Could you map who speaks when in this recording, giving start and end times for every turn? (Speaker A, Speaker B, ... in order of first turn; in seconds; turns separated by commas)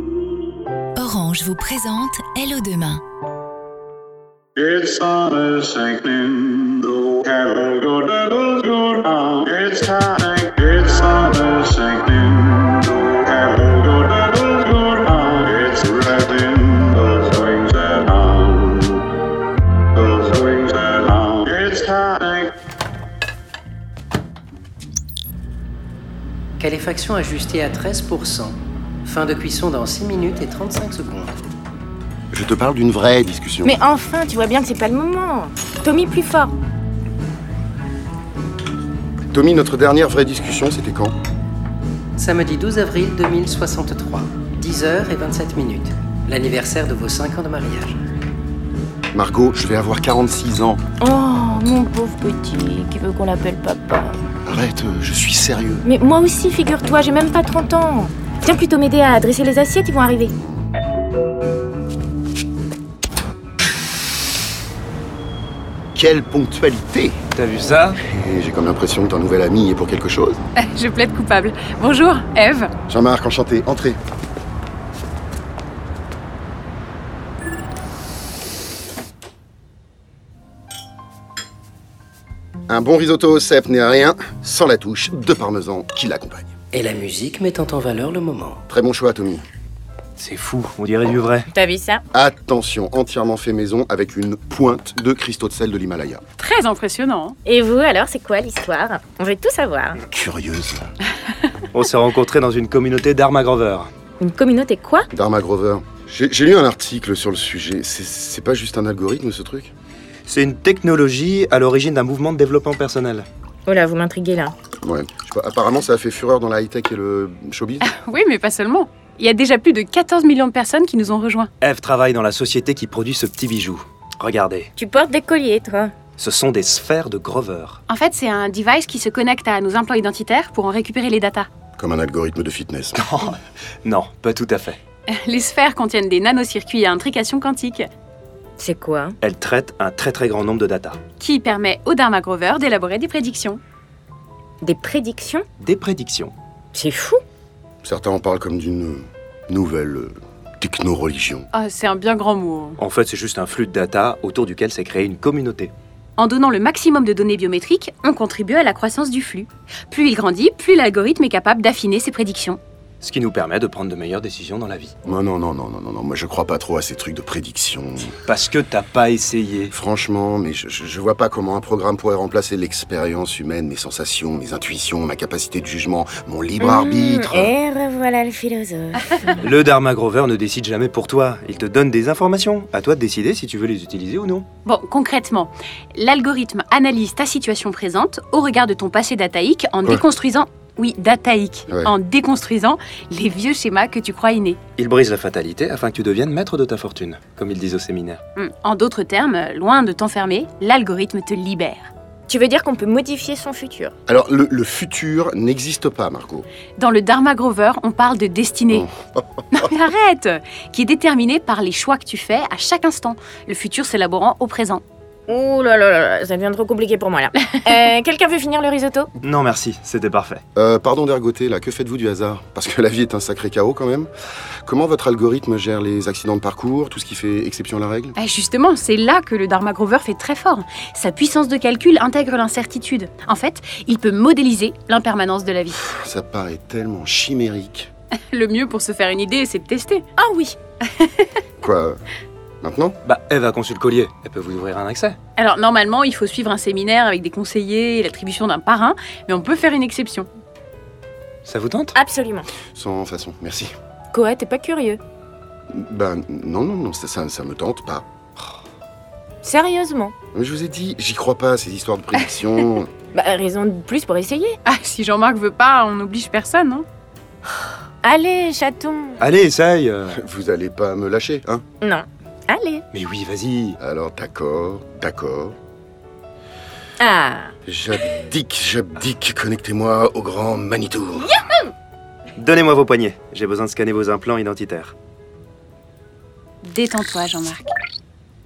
Speaker A: 1.1-3.0, Speaker B: 4.6-18.9, Speaker B: 20.0-22.5, Speaker C: 26.6-28.5, Speaker C: 29.1-31.3, Speaker D: 32.3-33.8, Speaker E: 33.6-36.5, Speaker D: 39.3-41.1, Speaker C: 42.2-48.0, Speaker D: 49.1-50.8, Speaker E: 51.0-54.2, Speaker D: 54.5-55.8, Speaker E: 55.8-60.3, Speaker D: 65.9-67.2, Speaker F: 67.3-68.0, Speaker D: 68.0-70.4, Speaker G: 70.6-72.7, Speaker D: 72.9-74.0, Speaker D: 82.7-86.5, Speaker C: 86.7-88.6, Speaker D: 88.7-89.5, Speaker F: 90.2-91.5, Speaker E: 91.5-92.0, Speaker D: 92.1-96.2, Speaker G: 96.4-97.4, Speaker E: 97.5-100.0, Speaker D: 100.1-100.9, Speaker F: 101.7-103.9, Speaker E: 104.2-105.1, Speaker D: 105.1-109.7, Speaker F: 110.3-113.3, Speaker E: 113.7-114.5, Speaker D: 114.8-117.9, Speaker G: 117.8-121.5, Speaker F: 121.6-124.7, Speaker E: 124.8-125.9, Speaker F: 126.2-127.8, Speaker G: 127.9-131.5, Speaker D: 131.8-133.1, Speaker F: 133.0-134.8, Speaker G: 135.1-137.9, Speaker E: 138.6-139.2, Speaker F: 139.2-141.0, Speaker G: 141.2-143.6, Speaker E: 144.6-145.4, Speaker F: 145.6-146.3, Speaker E: 146.7-147.2, Speaker D: 147.8-151.5, Speaker G: 151.5-152.8, Speaker F: 152.8-155.7, Speaker G: 156.2-162.6, Speaker F: 163.0-165.0, Speaker D: 165.1-168.2, Speaker F: 168.1-169.7, Speaker D: 169.7-177.5, Speaker E: 176.6-179.3, Speaker F: 179.4-184.5, Speaker G: 184.7-194.6, Speaker F: 194.8-198.2, Speaker G: 198.4-201.9, Speaker E: 202.3-203.9, Speaker D: 204.1-206.5, Speaker G: 206.8-208.9, Speaker D: 208.7-209.5, Speaker G: 209.5-214.8, Speaker E: 215.3-219.1, Speaker F: 219.2-220.4, Speaker D: 220.6-224.1, Speaker D: 224.7-228.1, Speaker G: 228.2-235.9, Speaker D: 235.8-237.9, Speaker G: 238.3-240.1, Speaker E: 240.2-240.6, Speaker G: 240.8-241.4, Speaker D: 241.6-242.0, Speaker D: 242.6-243.0, Speaker F: 243.1-245.2, Speaker G: 245.4-250.3, Speaker F: 251.4-251.9, Speaker E: 251.9-252.5, Speaker D: 252.8-253.7, Speaker E: 254.1-255.0, Speaker D: 255.7-258.1, Speaker E: 259.4-260.1, Speaker D: 260.3-262.9, Speaker G: 262.2-262.8, Speaker E: 263.1-264.6, Speaker G: 264.7-266.9, Speaker E: 268.0-269.2, Speaker F: 269.2-270.2, Speaker D: 270.1-271.6, Speaker E: 271.8-272.8, Speaker F: 272.9-273.8, Speaker D: 273.8-275.6, Speaker E: 277.0-277.5, Speaker D: 277.7-281.4, Speaker F: 282.4-284.9, Speaker G: 286.6-287.7